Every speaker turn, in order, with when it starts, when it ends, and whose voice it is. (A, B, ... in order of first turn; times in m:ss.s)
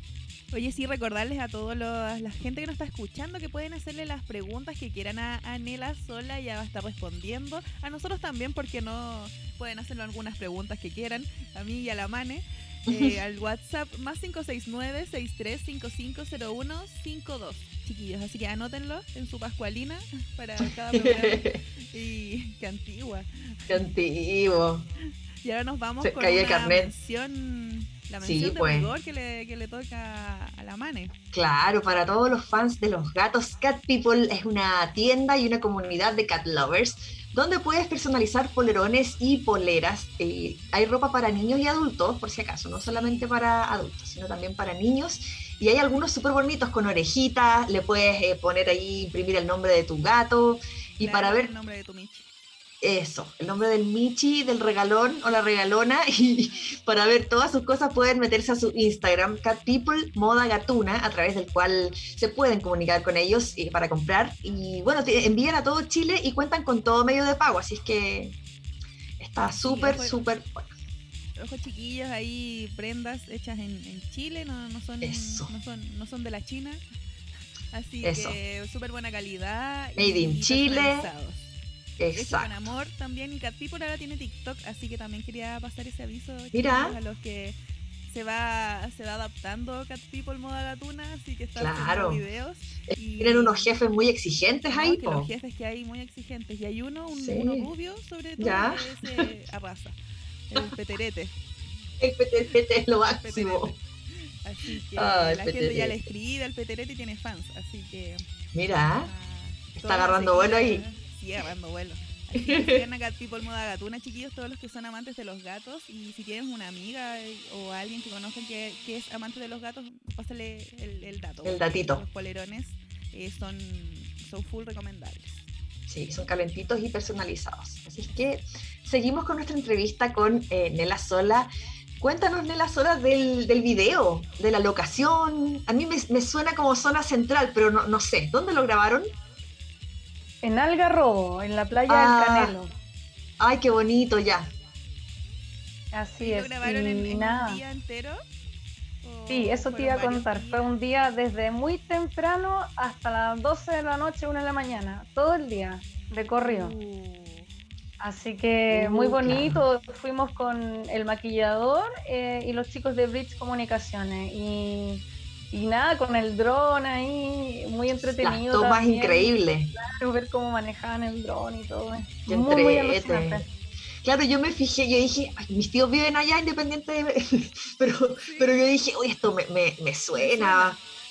0:00.5-0:23.8 A
0:12.9-0:13.2 B
0:20.9-0:21.6 B
0:23.7-0:24.8 B
0:25.4-0:31.1 A
0:26.0-0:26.9 B
0:28.2-0:28.9 B
0:31.3-0:51.5 B
0:42.7-0:43.3 A
0:51.0-0:52.3 A
0:52.8-1:08.4 B
1:09.2-1:10.7 B
1:09.4-1:10.2 A
1:11.4-1:16.8 A
1:15.0-1:15.5 B
1:17.7-1:21.5 A
1:18.0-1:18.4 B
1:20.0-1:21.1 B
1:22.0-1:22.5 B
1:22.1-1:33.7 A
1:26.5-1:27.0 B
1:31.6-1:32.2 B
1:32.9-1:35.3 B
1:34.7-1:40.0 A
1:37.1-1:37.7 B
1:38.4-1:39.2 B
1:40.5-1:41.4 A
1:42.0-1:43.8 B
1:43.2-1:43.8 A
1:44.4-1:48.2 A
1:45.0-1:46.0 B
1:48.5-1:49.1 B
1:49.0-2:05.5 A
1:49.8-1:50.8 B
1:52.4-1:52.8 B
2:01.4-2:02.0 B
2:05.9-2:11.5 B
2:12.0-2:19.1 B
2:20.4-2:22.7 C
2:21.9-2:22.6 B
2:23.4-2:24.5 B
2:25.9-2:27.6 C
2:26.2-2:28.2 A
2:29.0-2:30.7 A
2:29.3-2:36.8 C
2:36.4-2:37.5 A
2:38.0-2:53.4 C
2:38.7-2:39.6 B
2:48.2-2:49.7 B
2:52.3-2:53.5 B
2:54.0-3:00.8 B
2:58.2-2:58.5 A
3:00.2-3:00.8 A